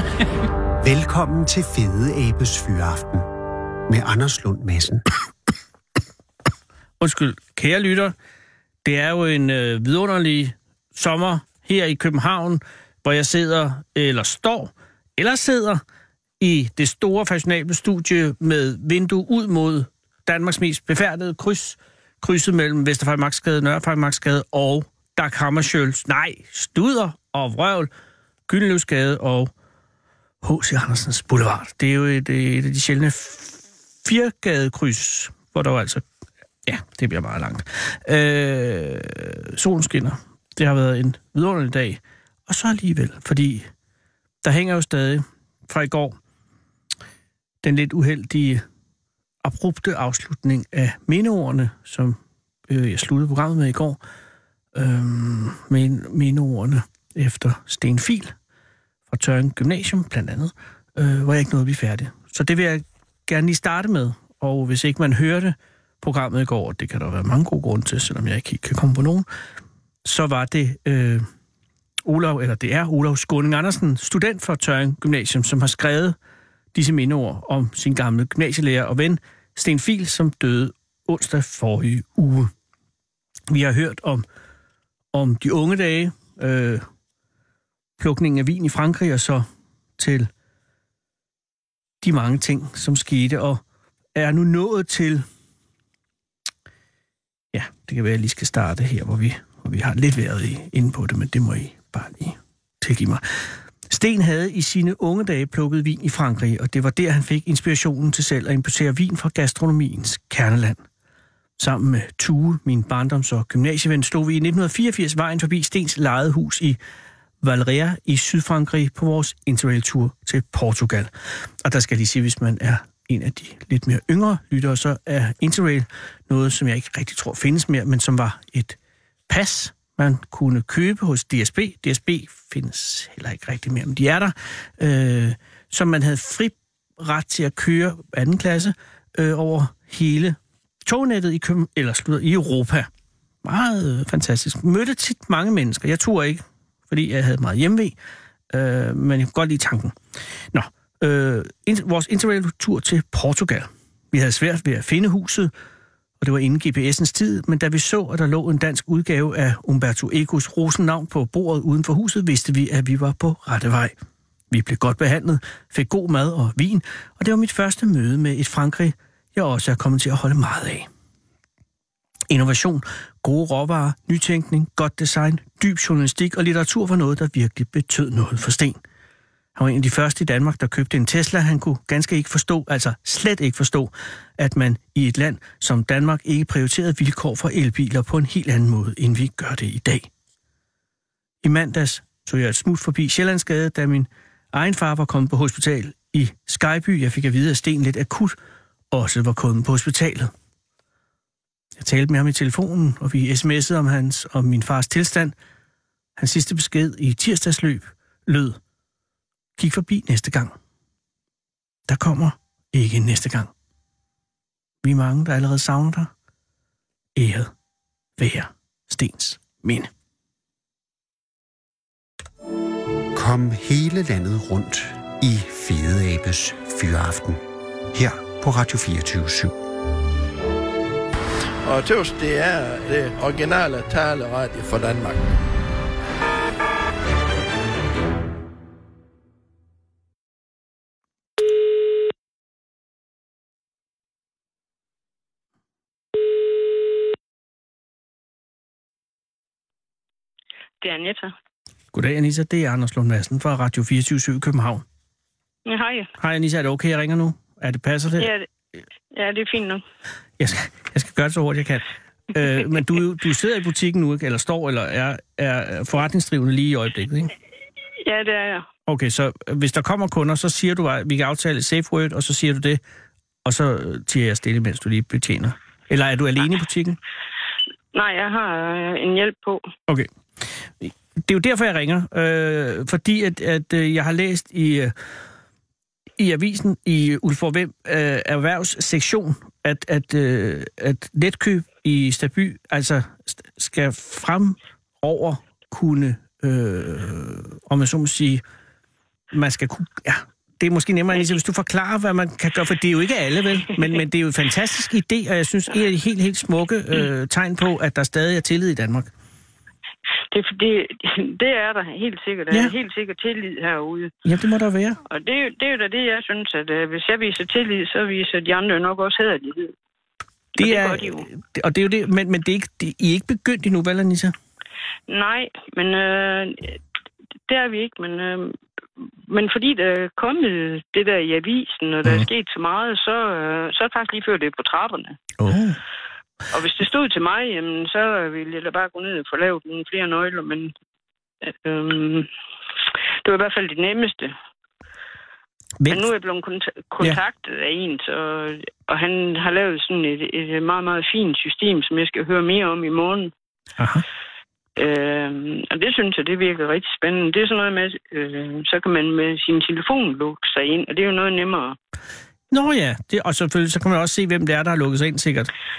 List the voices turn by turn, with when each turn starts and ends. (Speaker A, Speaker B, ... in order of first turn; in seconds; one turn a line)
Speaker A: 0.8-3.3
Speaker A: 3.9-5.0
Speaker B: 7.0-8.1
Speaker B: 8.8-15.8
Speaker B: 16.4-27.9
Speaker B: 28.5-29.5
Speaker B: 30.4-36.0
Speaker B: 36.6-43.7
Speaker B: 44.4-46.2
Speaker B: 47.6-48.6
Speaker B: 49.4-54.0
Speaker B: 54.7-58.3
Speaker B: 59.1-69.3
Speaker B: 70.0-71.3
Speaker B: 72.0-76.2
Speaker B: 76.7-82.5
Speaker B: 83.5-84.2
Speaker B: 85.1-86.8
Speaker B: 88.0-89.5
Speaker B: 90.0-90.3
Speaker B: 92.0-93.6
Speaker B: 94.1-95.2
Speaker B: 97.5-110.8
Speaker B: 111.6-116.8
Speaker B: 117.4-128.8
Speaker B: 129.3-142.9
Speaker B: 143.4-147.9
Speaker B: 148.5-150.0
Speaker B: 150.5-155.5
Speaker B: 156.2-163.9
Speaker B: 164.5-170.9
Speaker B: 172.3-178.8
Speaker B: 179.6-190.1
Speaker B: 191.4-198.4
Speaker B: 198.9-200.3
Speaker B: 201.8-205.3
Speaker B: 206.2-208.6
Speaker B: 209.6-210.5
Speaker B: 211.9-213.5
Speaker B: 214.8-216.1
Speaker B: 217.2-217.5
Speaker B: 218.2-219.9
Speaker A: 223.1-227.4
Speaker A: 227.9-229.5
Speaker C: 231.6-235.3
Speaker D: 250.8-251.3
Speaker B: 251.9-254.8
Speaker D: 255.7-256.1
Speaker B: 256.2-258.3
Speaker D: 258.2-258.5
Speaker D: 259.1-259.8
Speaker B: 260.4-267.3
Speaker D: 268.0-268.6
Speaker B: 268.9-272.8
Speaker B: 273.4-277.0
Speaker D: 277.9-279.6
Speaker B: 279.9-284.9
Speaker B: 286.2-298.4
Speaker B: 299.3-309.1
Speaker D: 310.3-314.1
Speaker B: 314.2-315.0
Speaker D: 315.0-319.7
Speaker D: 320.6-321.3
Speaker B: 320.6-324.3
Speaker D: 325.1-326.8
Speaker D: 327.5-335.2
Speaker B: 335.4-335.8
Speaker D: 336.5-340.7
Speaker D: 341.4-342.3
Speaker D: 343.2-344.3
Speaker B: 345.8-346.1
Speaker D: 345.9-353.3
Speaker B: 353.8-354.0
Speaker D: 354.8-361.8
Speaker B: 362.5-365.5